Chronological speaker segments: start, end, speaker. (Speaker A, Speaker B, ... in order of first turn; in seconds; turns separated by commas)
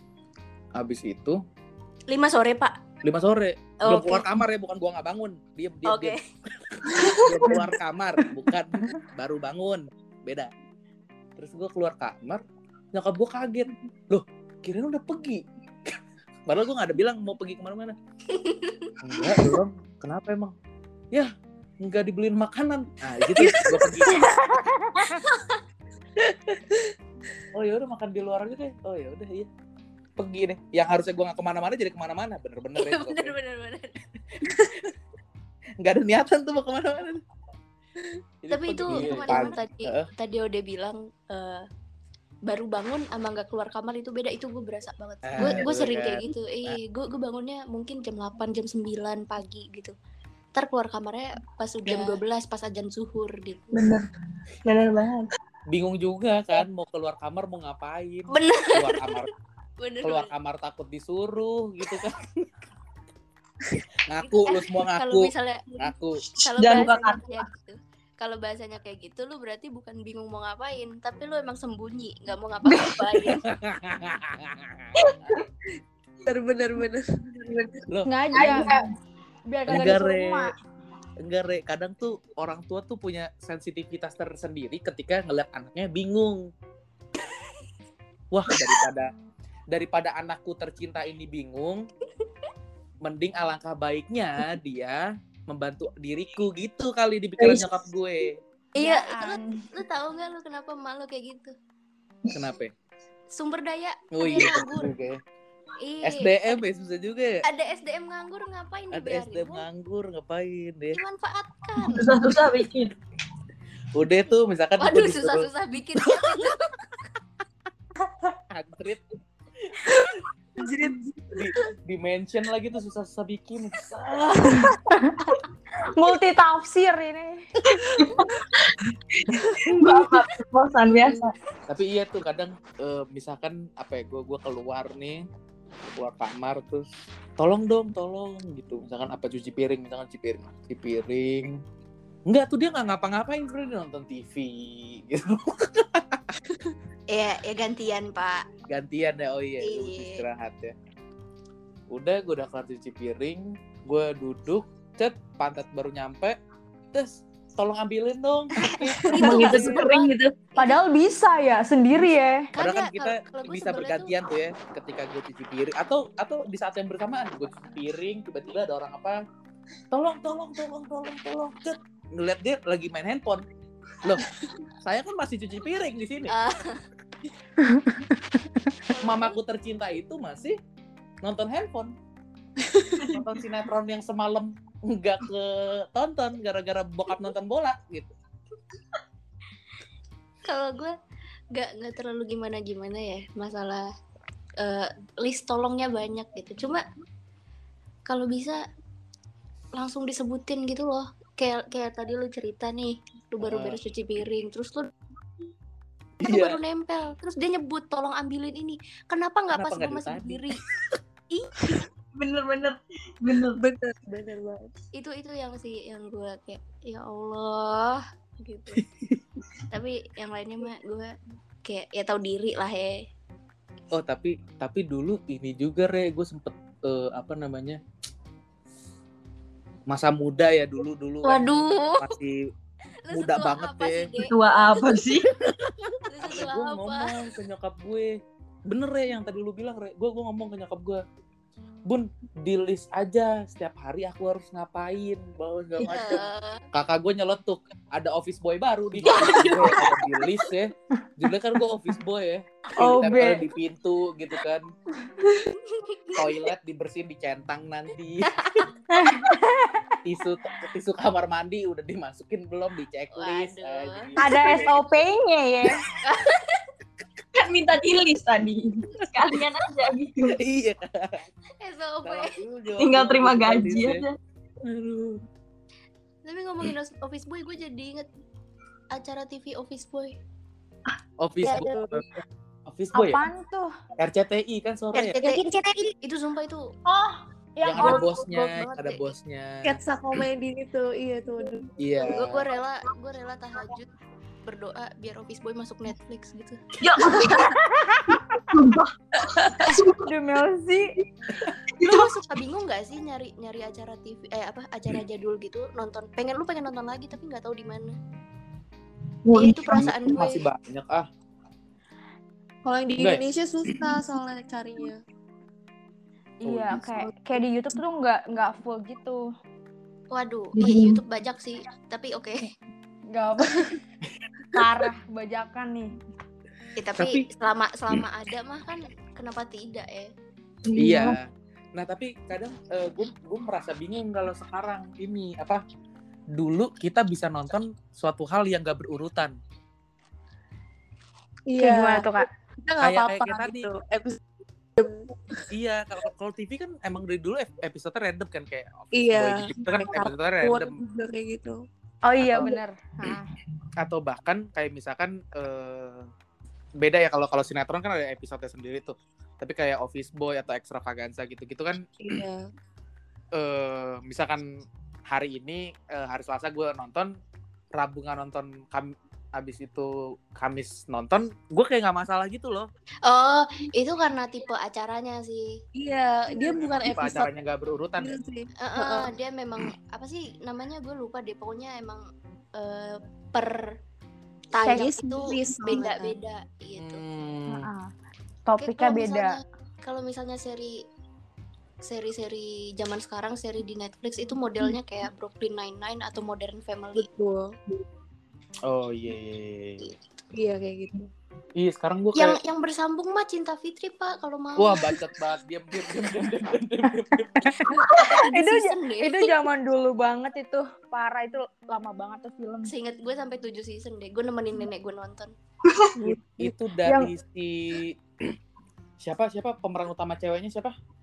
Speaker A: 0.8-1.4, Speaker B: 2.1-2.8, Speaker A: 3.0-10.5, Speaker B: 3.8-4.3, Speaker B: 5.8-6.2, Speaker C: 6.9-7.6, Speaker A: 11.4-12.4, Speaker A: 12.9-17.9, Speaker B: 18.3-18.9, Speaker A: 19.0-20.5, Speaker A: 21.1-24.2, Speaker B: 23.4-24.3, Speaker B: 25.1-25.6, Speaker A: 26.2-26.7, Speaker A: 27.5-29.5, Speaker A: 30.2-33.4, Speaker B: 32.8-33.9, Speaker A: 34.4-34.9, Speaker A: 35.8-37.2, Speaker A: 38.4-40.1, Speaker B: 38.5-41.6, Speaker B: 42.5-49.9, Speaker A: 45.2-46.8, Speaker B: 50.5-53.7, Speaker C: 53.7-54.0, Speaker C: 54.6-55.3, Speaker A: 55.7-59.3, Speaker B: 58.3-59.3, Speaker B: 59.8-60.3, Speaker A: 60.0-62.6, Speaker A: 64.0-66.2, Speaker B: 64.3-73.5, Speaker C: 66.3-67.4, Speaker C: 72.7-73.4, Speaker A: 73.4-74.9, Speaker C: 75.0-75.5, Speaker D: 76.2-77.2, Speaker C: 77.4-78.9, Speaker A: 77.9-78.8, Speaker E: 78.0-78.7, Speaker E: 79.5-80.5, Speaker A: 79.7-80.5, Speaker A: 81.2-86.5, Speaker A: 88.3-89.1, Speaker A: 89.7-91.8, Speaker A: 93.0-98.4, Speaker C: 97.4-97.7, Speaker E: 98.8-99.6, Speaker B: 98.8-101.5, Speaker A: 102.3-102.7, Speaker B: 103.3-104.9, Speaker A: 104.1-105.2, Speaker B: 105.8-106.6, Speaker A: 106.0-107.4, Speaker B: 107.4-109.7, Speaker A: 108.9-111.0, Speaker B: 110.9-112.2, Speaker C: 111.8-112.9, Speaker A: 113.9-115.5, Speaker B: 114.8-116.7, Speaker A: 118.2-119.0, Speaker A: 119.6-120.0, Speaker A: 120.6-124.8, Speaker E: 124.9-125.3, Speaker E: 125.9-127.4, Speaker C: 127.9-131.3, Speaker A: 131.7-135.2, Speaker A: 135.9-136.8, Speaker A: 137.4-141.6, Speaker A: 142.3-146.5, Speaker B: 147.1-148.4, Speaker A: 148.7-150.7, Speaker B: 149.6-150.2, Speaker A: 151.9-156.4, Speaker A: 156.9-159.8, Speaker B: 158.9-160.8, Speaker C: 159.1-160.3, Speaker E: 160.6-162.5, Speaker B: 162.5-164.3, Speaker A: 162.6-169.2, Speaker A: 169.9-173.4, Speaker A: 174.0-174.3, Speaker A: 174.8-176.3, Speaker B: 176.3-176.8, Speaker B: 178.9-179.3, Speaker A: 179.0-180.6, Speaker A: 181.2-181.9, Speaker A: 183.1-188.1, Speaker B: 190.4-190.9, Speaker B: 191.5-193.9, Speaker B: 194.6-196.8, Speaker B: 198.1-198.6, Speaker B: 199.7-204.9, Speaker A: 203.4-203.8, Speaker A: 206.2-206.6, Speaker B: 206.2-210.6, Speaker A: 209.5-210.9, Speaker B: 211.3-211.8, Speaker C: 212.1-213.6, Speaker D: 213.5-214.7, Speaker B: 214.9-218.8, Speaker A: 218.8-219.2, Speaker B: 219.7-221.1, Speaker B: 221.6-223.0, Speaker A: 223.9-227.8, Speaker A: 229.9-232.4, Speaker B: 231.2-232.1, Speaker B: 233.1-235.0, Speaker A: 233.1-234.1, Speaker C: 234.2-235.3, Speaker B: 236.0-237.1, Speaker A: 236.2-238.1, Speaker A: 238.7-241.0, Speaker A: 241.9-254.6, Speaker B: 245.8-246.6, Speaker C: 249.0-250.2, Speaker B: 249.2-249.7, Speaker E: 252.8-253.4, Speaker B: 255.7-256.3, Speaker A: 256.1-258.6, Speaker B: 258.3-258.6, Speaker E: 259.0-259.7, Speaker A: 260.0-264.7, Speaker B: 263.1-264.3, Speaker E: 264.2-265.8, Speaker B: 266.0-266.6, Speaker C: 267.3-270.4, Speaker A: 270.3-271.2, Speaker B: 271.6-272.4, Speaker A: 272.0-274.0, Speaker C: 272.8-274.2, Speaker A: 274.6-275.2, Speaker B: 276.2-278.1, Speaker B: 278.9-280.1, Speaker A: 281.2-283.2, Speaker D: 281.5-282.0, Speaker E: 282.9-283.7, Speaker A: 284.0-285.4, Speaker D: 284.9-285.9, Speaker B: 285.2-285.4, Speaker B: 286.0-286.7, Speaker E: 286.9-288.1, Speaker A: 287.6-289.8, Speaker B: 287.8-289.1, Speaker D: 289.6-291.7, Speaker A: 291.8-292.4, Speaker B: 292.0-293.9, Speaker B: 294.4-296.6, Speaker C: 296.8-297.6, Speaker E: 297.4-298.2, Speaker C: 298.1-300.0, Speaker E: 299.7-300.9, Speaker C: 301.8-302.1, Speaker B: 301.8-307.9, Speaker C: 309.2-310.1, Speaker B: 309.3-310.5, Speaker A: 309.7-311.1, Speaker D: 312.6-315.0, Speaker A: 313.0-313.9, Speaker E: 316.4-319.2, Speaker A: 316.4-317.1, Speaker B: 320.1-322.5, Speaker C: 320.6-321.0, Speaker E: 323.1-323.6, Speaker E: 324.5-325.9, Speaker B: 326.8-330.1, Speaker C: 330.6-331.2, Speaker A: 330.8-335.6, Speaker A: 336.4-339.3, Speaker D: 341.5-343.8, Speaker E: 341.6-342.3, Speaker A: 342.8-344.2, Speaker D: 344.8-345.4, Speaker A: 345.5-350.8, Speaker D: 348.9-351.6, Speaker E: 352.0-353.2, Speaker A: 352.2-352.5, Speaker A: 353.8-356.1, Speaker A: 356.8-362.2, Speaker D: 362.0-362.5, Speaker A: 363.4-364.4, Speaker A: 365.1-367.1, Speaker A: 367.7-372.7, Speaker B: 373.0-375.6, Speaker D: 375.7-377.3, Speaker A: 376.4-378.1, Speaker D: 378.0-379.1, Speaker B: 378.6-383.8, Speaker B: 384.5-387.0, Speaker D: 384.6-386.1, Speaker E: 384.6-385.2, Speaker A: 386.8-387.7, Speaker E: 387.5-387.9, Speaker E: 388.4-389.4, Speaker B: 388.6-390.8, Speaker B: 391.8-397.1, Speaker D: 396.9-397.5, Speaker A: 398.7-399.9, Speaker D: 400.3-401.1, Speaker A: 401.6-402.4, Speaker B: 402.1-405.0, Speaker A: 404.6-407.7, Speaker E: 407.4-412.7, Speaker B: 407.9-409.3, Speaker B: 412.7-415.3, Speaker A: 416.0-418.3, Speaker E: 416.8-417.1, Speaker A: 419.0-420.7